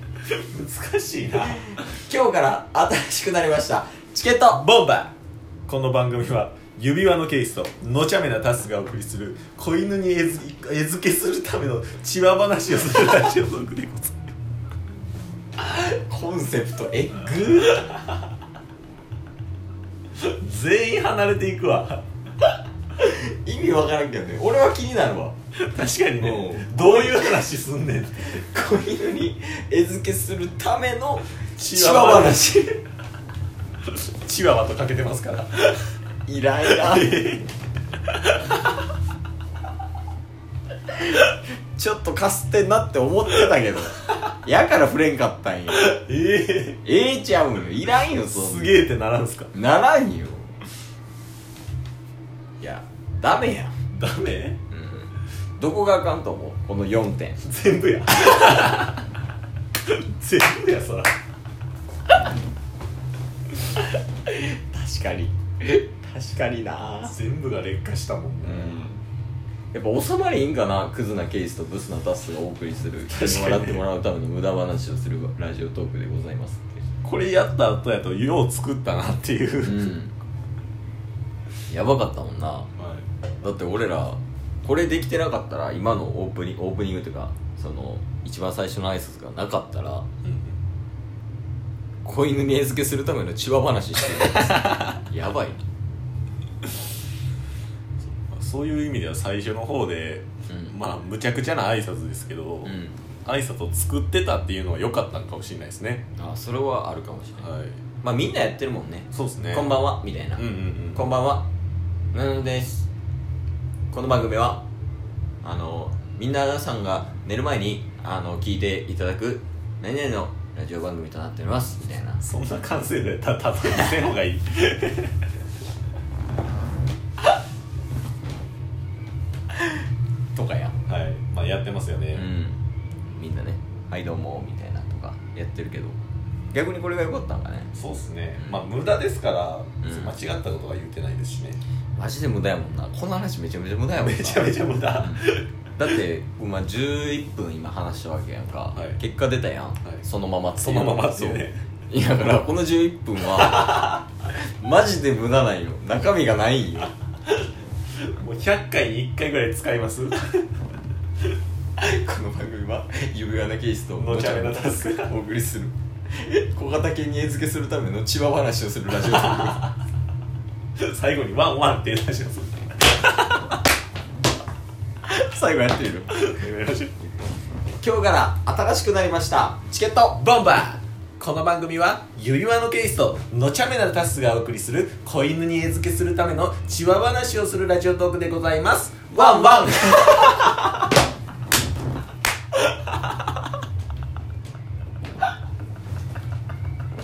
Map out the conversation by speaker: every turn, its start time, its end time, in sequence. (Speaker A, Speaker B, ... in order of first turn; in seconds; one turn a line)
Speaker A: 0.2-1.7
Speaker B: 1.6-4.7
Speaker A: 4.5-5.1
Speaker A: 5.7-14.3
Speaker B: 15.6-18.0
Speaker A: 20.2-22.1
Speaker B: 23.0-25.4
Speaker A: 25.5-28.3
Speaker B: 26.2-27.5
Speaker B: 28.2-32.8
Speaker A: 31.6-32.4
Speaker A: 33.9-35.9
Speaker B: 36.3-37.3
Speaker A: 36.6-37.5
Speaker A: 38.1-38.4
Speaker B: 40.9-46.0
Speaker A: 45.7-46.8
Speaker B: 46.8-48.8
Speaker A: 48.3-49.5
Speaker B: 49.5-50.6
Speaker B: 52.6-53.8
Speaker A: 53.9-54.6
Speaker B: 54.7-57.4
Speaker A: 57.4-59.0
Speaker A: 59.9-61.1
Speaker B: 63.8-67.2
Speaker A: 67.0-68.8
Speaker B: 68.4-69.0
Speaker B: 69.7-76.8
Speaker A: 73.1-73.8
Speaker A: 77.0-80.0
Speaker B: 79.6-80.1
Speaker B: 81.7-82.7
Speaker A: 82.8-83.0
Speaker B: 83.4-90.1
Speaker A: 90.2-90.6
Speaker B: 92.0-95.6
Speaker A: 98.2-106.1
Speaker B: 102.7-102.9
Speaker B: 106.2-111.5
Speaker A: 107.4-107.8
Speaker A: 109.1-109.8
Speaker A: 110.4-111.1
Speaker B: 112.1-112.9
Speaker B: 113.9-114.7
Speaker B: 115.4-122.2
Speaker A: 122.2-125.2
Speaker B: 130.3-130.8
Speaker A: 130.9-132.3
Speaker B: 132.1-132.6
Speaker B: 133.1-136.0
Speaker B: 136.5-137.7
Speaker A: 137.7-141.6
Speaker B: 138.4-138.7
Speaker B: 139.8-140.1
Speaker B: 141.9-145.2
Speaker A: 144.0-145.5
Speaker B: 145.8-156.9
Speaker A: 148.8-149.0
Speaker A: 150.6-151.7
Speaker A: 158.0-160.5
Speaker B: 161.8-169.7
Speaker A: 164.0-165.1
Speaker A: 170.8-173.4
Speaker B: 175.1-176.3
Speaker A: 176.1-177.0
Speaker B: 177.8-180.2
Speaker A: 180.1-190.4
Speaker B: 189.1-190.6